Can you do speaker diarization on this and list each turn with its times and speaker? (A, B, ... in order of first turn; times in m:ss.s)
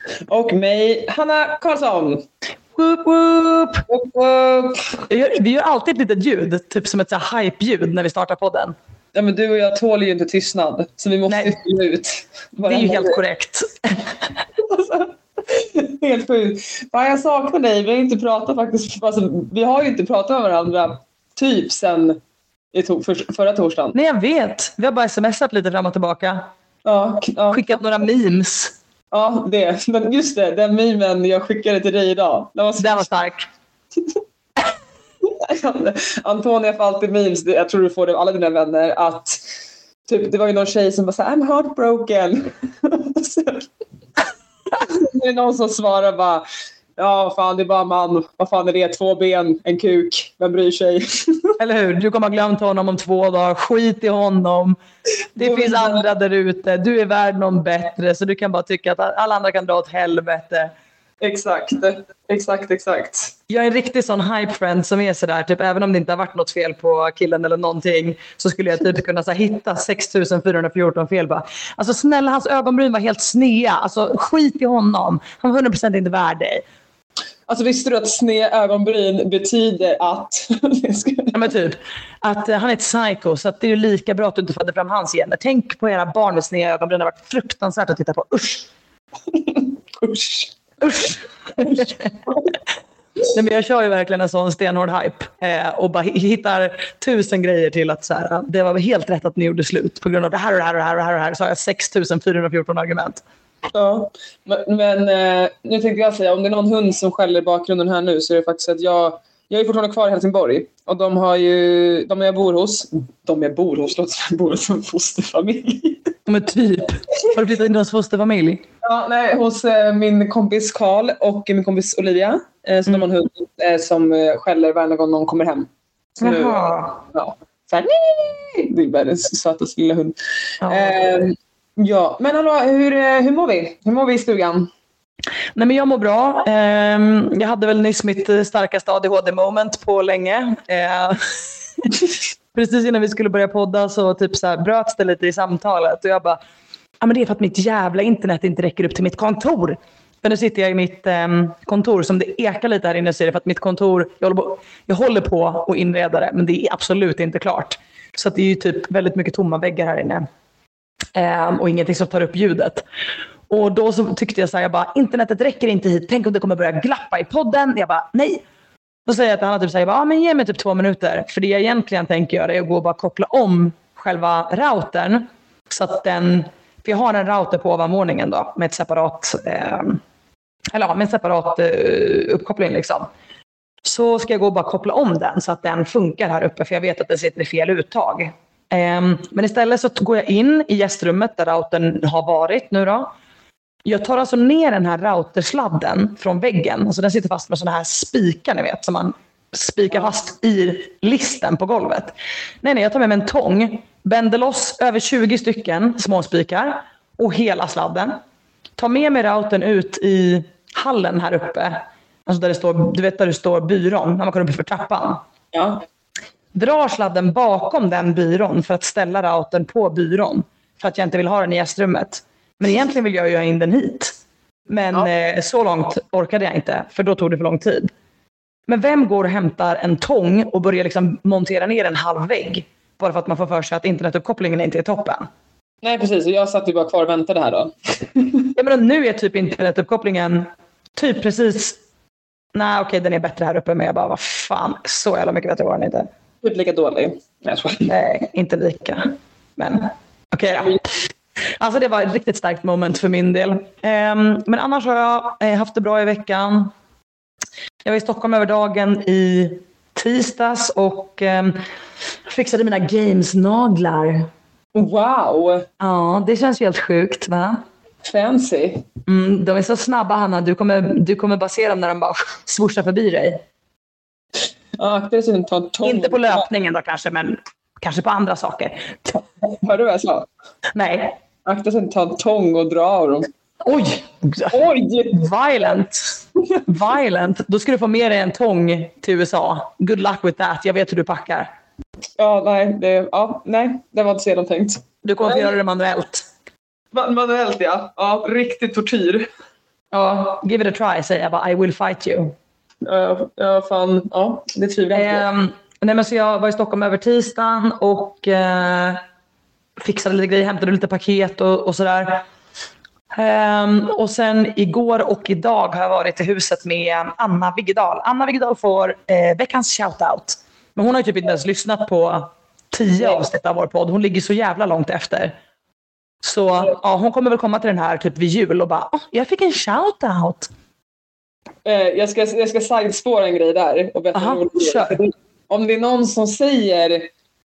0:00.3-0:02.2 A
0:02.7-0:03.8 B
0:03.9-0:05.0 A
0:05.1-0:08.7 B
0:09.1-0:13.2 A
0:11.3-0:11.5 B
0:12.6-0:14.1 B
0:14.6-0:22.2 A
0:22.7-0:24.0 A
0:23.9-0:26.5 B
0:26.8-0:27.6 A
0:27.5-0:28.8 B
0:29.1-0:33.1 A
0:32.8-0:33.4 B
0:35.2-0:39.5 A
0:40.1-0:43.6 A
0:44.8-0:46.4 A
0:47.0-0:51.6 A
0:51.6-0:54.8 B
0:55.4-1:00.7 B
0:55.4-0:56.0 A
1:01.2-1:03.3 A
1:03.5-1:16.6 B
1:17.5-1:21.3 A
1:21.3-1:28.7 B
1:29.3-1:30.5 A
1:30.8-1:32.1 B
1:33.3-1:43.2 B
1:43.7-1:56.1 A
1:56.3-1:58.6 B
1:58.8-2:10.1 A
2:06.2-2:07.0 B
2:10.6-2:11.0 B
2:10.6-2:14.7 A
2:15.5-2:26.4 B
2:27.0-2:40.2 B
2:41.1-2:42.8 B
2:43.5-2:48.4 B
2:49.0-3:00.0 B
3:00.7-3:03.1 B
3:03.8-3:13.1 B
3:13.8-3:28.2 B
3:28.8-3:35.2 B
3:35.5-3:35.8 A
3:36.5-3:44.2 B
3:44.7-3:47.9 B
3:48.7-3:55.3 B
3:55.8-3:58.4 A
3:58.6-4:01.8 B
4:02.5-4:06.1 B
4:06.4-4:07.9 A
4:07.8-4:11.0 B
4:11.6-4:16.7 B
4:17.8-4:21.6 B
4:22.2-4:24.3 B
4:24.7-4:25.7 A
4:25.8-4:27.6 B
4:28.0-4:28.8 A
4:29.1-4:33.4 B
4:34.8-4:36.5 A
4:35.8-4:39.2 B
4:39.5-4:40.3 A
4:40.7-4:41.2 B
4:41.4-4:43.3 A
4:43.6-4:51.5 B
4:44.5-4:45.2 A
4:52.2-4:55.5 A
4:55.0-4:56.2 B
4:56.9-4:59.3 A
4:59.9-5:02.3 B
5:02.8-5:05.2 A
5:04.9-5:09.0 B
5:09.8-5:12.2 B
5:13.1-5:25.3 B
5:26.2-5:30.5 B
5:31.6-5:37.1 A
5:34.1-5:35.0 B